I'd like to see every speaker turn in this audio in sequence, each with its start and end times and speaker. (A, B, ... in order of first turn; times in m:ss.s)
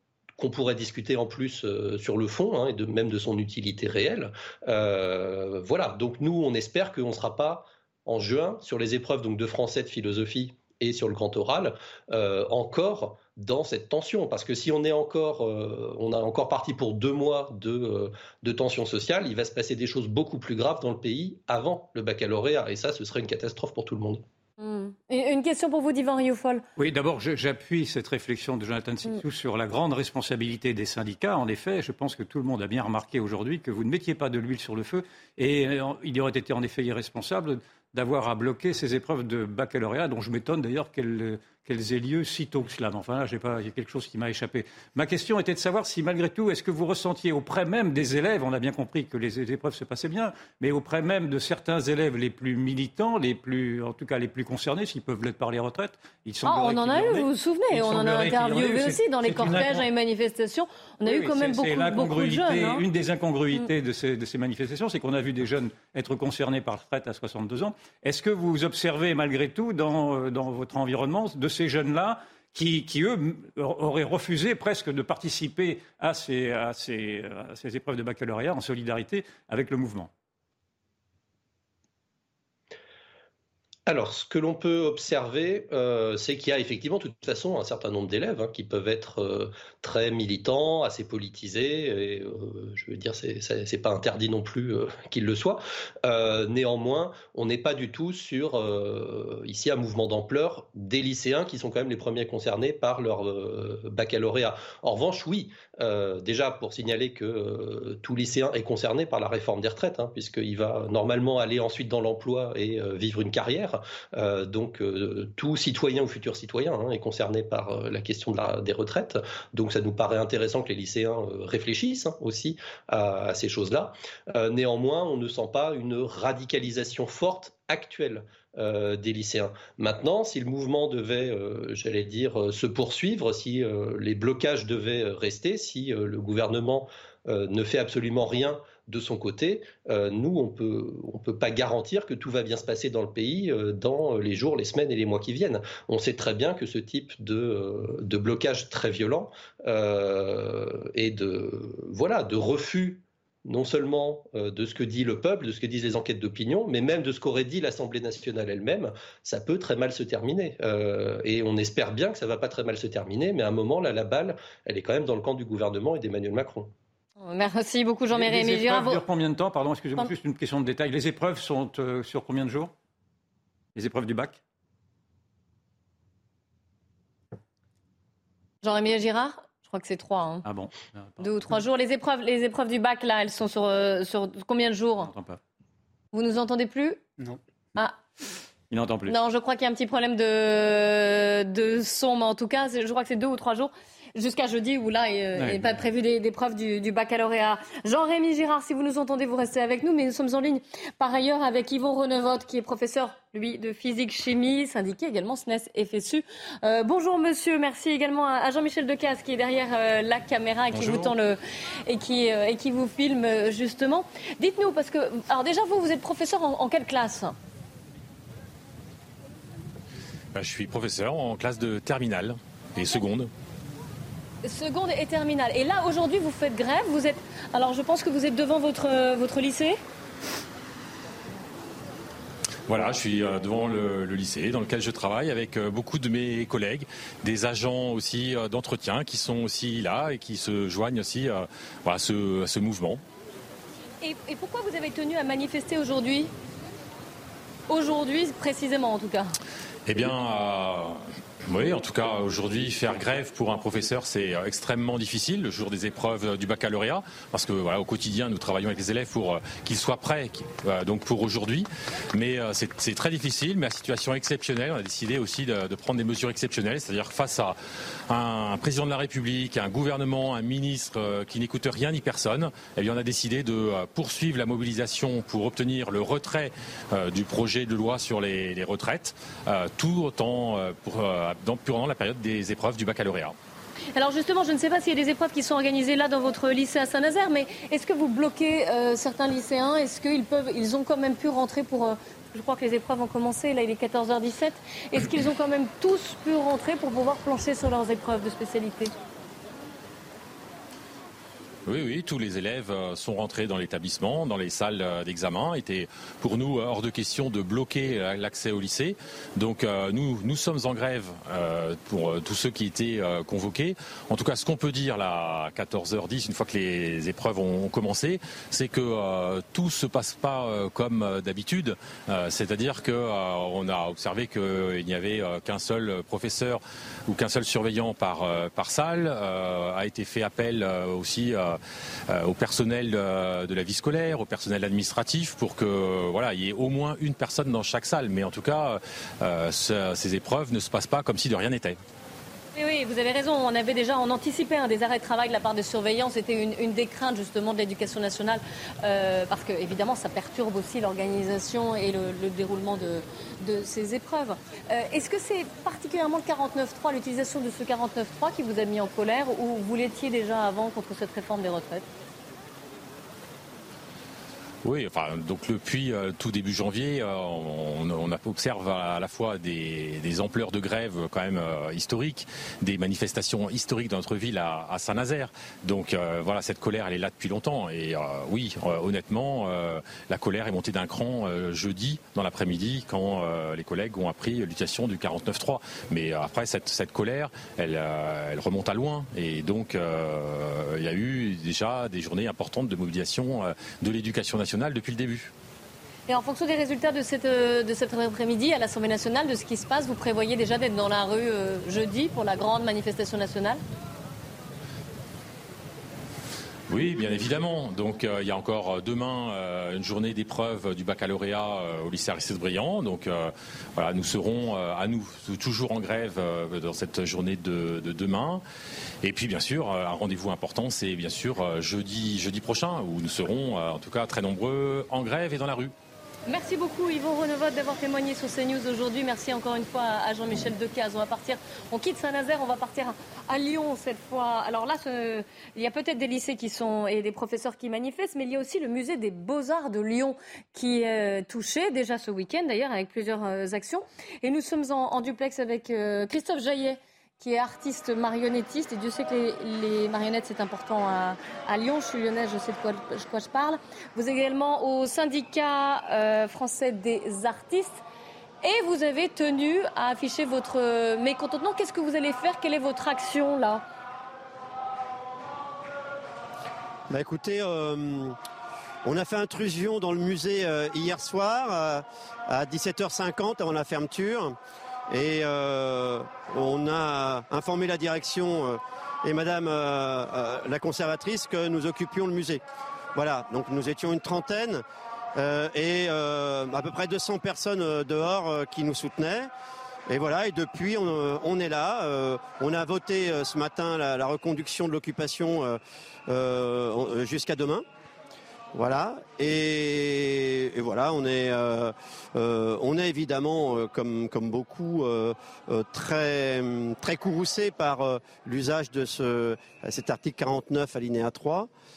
0:00.4-0:24.2 A
0:24.6-0:26.6 B
0:26.8-0:59.9 C
0:56.4-1:02.8 B
1:01.0-1:20.1 C
1:23.9-2:46.7 A
2:47.2-2:49.0 B
2:48.1-2:52.7 C
2:53.8-2:54.4 C
2:58.6-3:00.5 B
3:00.4-3:01.6 C
3:01.2-3:05.1 B
3:05.0-3:05.4 C
3:06.1-3:07.0 B
3:08.7-3:09.2 C
3:09.1-3:37.4 B
3:15.4-3:15.8 C
3:30.8-3:31.1 D
3:40.3-3:43.3 D
3:44.4-3:49.8 B
3:52.7-4:03.0 D
4:04.0-4:06.3 B
4:07.7-4:09.3 B
4:09.9-4:43.4 D
4:44.0-4:58.9 B
5:01.7-5:41.8 D
5:42.6-6:01.9 B
6:04.6-6:35.3 D
6:36.1-6:43.6 B
6:46.7-6:58.4 D
6:59.0-7:05.7 D
7:06.3-7:37.8 B
7:38.4-7:43.6 B
7:46.9-7:48.2 E
7:48.8-7:54.4 E
7:54.9-8:02.4 E
8:03.0-8:04.6 E
8:05.2-8:09.3 E
8:09.9-8:17.6 E
8:18.5-8:31.5 E